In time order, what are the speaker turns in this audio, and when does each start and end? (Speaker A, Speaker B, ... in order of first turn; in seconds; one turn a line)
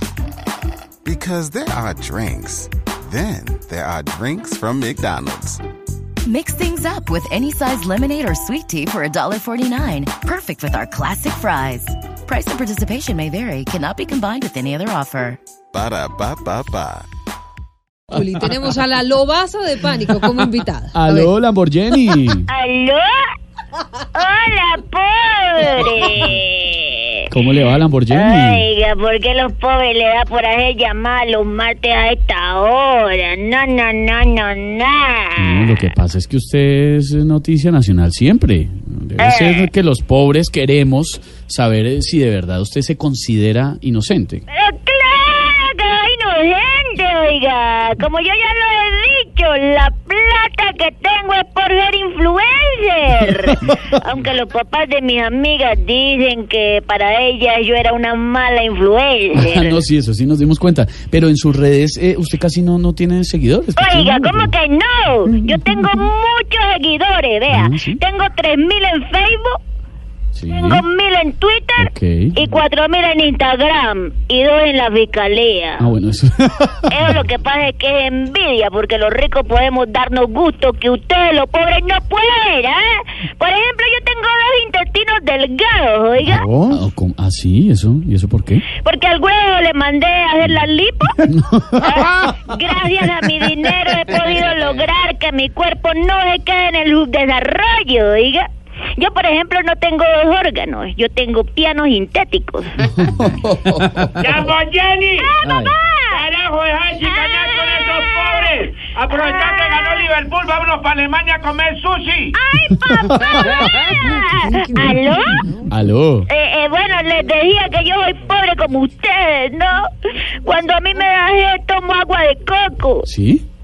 Speaker A: 1.0-5.6
Speaker B: 6.2-15.4
Speaker A: 15.7-17.1
Speaker C: 18.1-21.3
Speaker D: 18.1-18.6
Speaker D: 19.9-22.5
Speaker E: 22.5-23.3
Speaker E: 24.1-27.2
Speaker D: 27.3-28.7
Speaker E: 28.1-35.7
Speaker D: 35.4-44.4
Speaker E: 39.2-39.7
Speaker E: 44.5-59.8
Speaker D: 59.3-64.5
Speaker E: 63.8-69.6
Speaker D: 67.5-68.0
Speaker D: 70.3-70.8
Speaker E: 70.5-75.9
Speaker D: 71.8-72.3
Speaker D: 75.8-77.2
Speaker E: 76.9-86.5
Speaker D: 86.3-88.7
Speaker E: 88.8-102.7
Speaker D: 91.3-92.1
Speaker D: 102.9-104.1
Speaker F: 104.2-105.3
Speaker E: 105.2-106.2
Speaker F: 106.1-112.3
Speaker E: 107.0-108.5
Speaker E: 109.1-110.1
Speaker E: 112.3-115.6
Speaker D: 113.0-113.3
Speaker F: 113.4-114.0
Speaker D: 115.7-116.3
Speaker E: 116.3-119.9
Speaker E: 120.4-123.1
Speaker D: 123.1-123.4